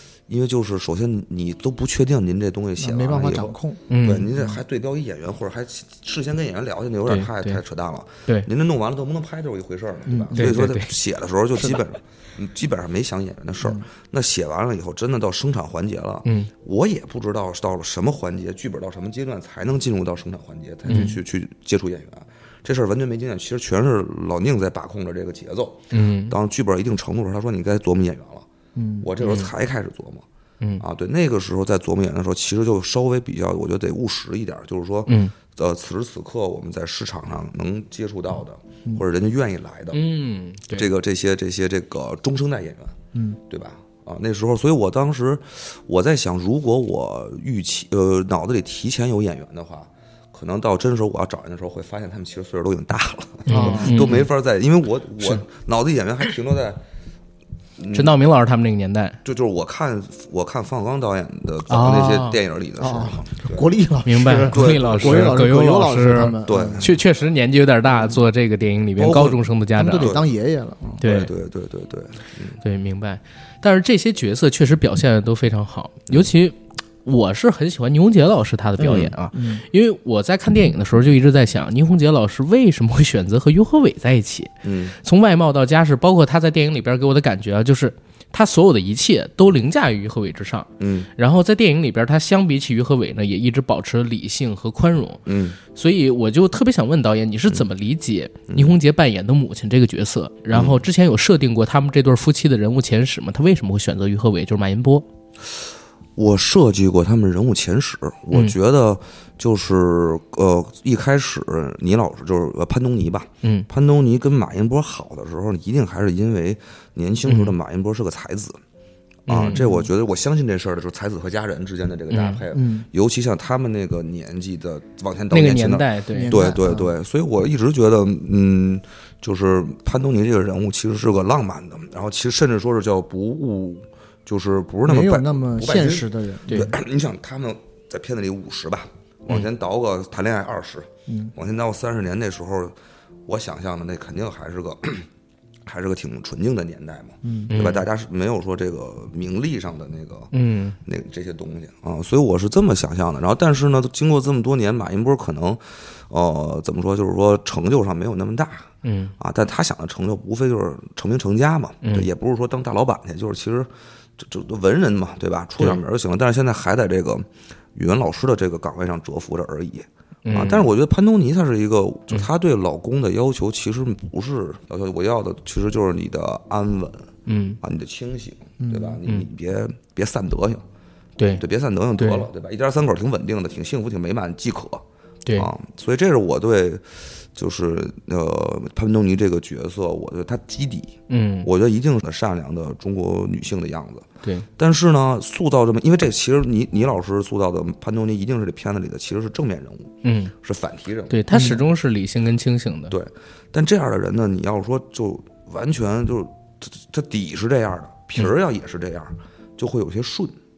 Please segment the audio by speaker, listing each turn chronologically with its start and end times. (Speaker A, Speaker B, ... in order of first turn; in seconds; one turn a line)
Speaker A: 0.3-28.5
Speaker B: 2.8-3.8
Speaker C: 3.9-4.3
Speaker C: 7.1-7.6
Speaker B: 10.1-10.6
Speaker C: 10.4-10.9
Speaker C: 16.2-16.5
Speaker C: 20.9-21.2
Speaker C: 25.9-26.4
Speaker B: 28.8-29.1
Speaker A: 29.0-30.2
Speaker C: 29.2-29.5
Speaker A: 30.8-40.0
Speaker C: 35.1-35.3
Speaker C: 39.9-40.9
Speaker A: 40.7-43.0
Speaker B: 43.1-43.4
Speaker A: 43.5-56.8
Speaker C: 53.5-54.3
Speaker B: 53.5-54.1
Speaker A: 57.8-58.2
Speaker C: 57.9-59.2
Speaker A: 59.2-63.7
Speaker C: 61.7-62.4
Speaker B: 62.8-66.9
Speaker C: 64.1-70.1
Speaker A: 64.4-65.4
Speaker A: 66.5-67.0
Speaker A: 69.0-70.3
Speaker B: 69.8-71.0
Speaker C: 71.0-71.3
Speaker A: 71.0-72.6
Speaker C: 72.6-105.1
Speaker A: 78.8-79.1
Speaker B: 79.3-79.7
Speaker A: 84.6-85.0
Speaker A: 90.8-91.1
Speaker A: 95.3-95.6
Speaker A: 100.5-100.8
Speaker A: 106.2-118.6
Speaker C: 117.2-117.5
Speaker A: 119.3-142.8
Speaker C: 119.3-119.7
Speaker B: 119.5-119.9
Speaker C: 122.1-122.4
Speaker B: 122.5-122.9
Speaker C: 125.3-126.4
Speaker B: 126.1-126.9
Speaker B: 134.9-136.7
Speaker C: 136.5-136.7
Speaker B: 141.1-141.3
Speaker A: 143.3-145.1
Speaker A: 145.7-150.3
Speaker B: 147.2-147.6
Speaker C: 147.5-147.9
Speaker C: 150.3-150.8
Speaker A: 150.8-177.1
Speaker C: 158.8-159.1
Speaker C: 161.8-162.1
Speaker C: 170.3-170.7
Speaker C: 177.3-177.6
Speaker A: 177.6-180.6
Speaker B: 178.6-179.0
Speaker C: 181.2-181.4
Speaker A: 181.3-184.8
Speaker C: 182.0-182.3
Speaker A: 185.3-194.1
Speaker C: 191.1-191.5
Speaker A: 194.6-201.6
Speaker C: 200.0-200.3
Speaker C: 201.1-202.9
Speaker B: 201.3-201.6
Speaker A: 202.9-210.3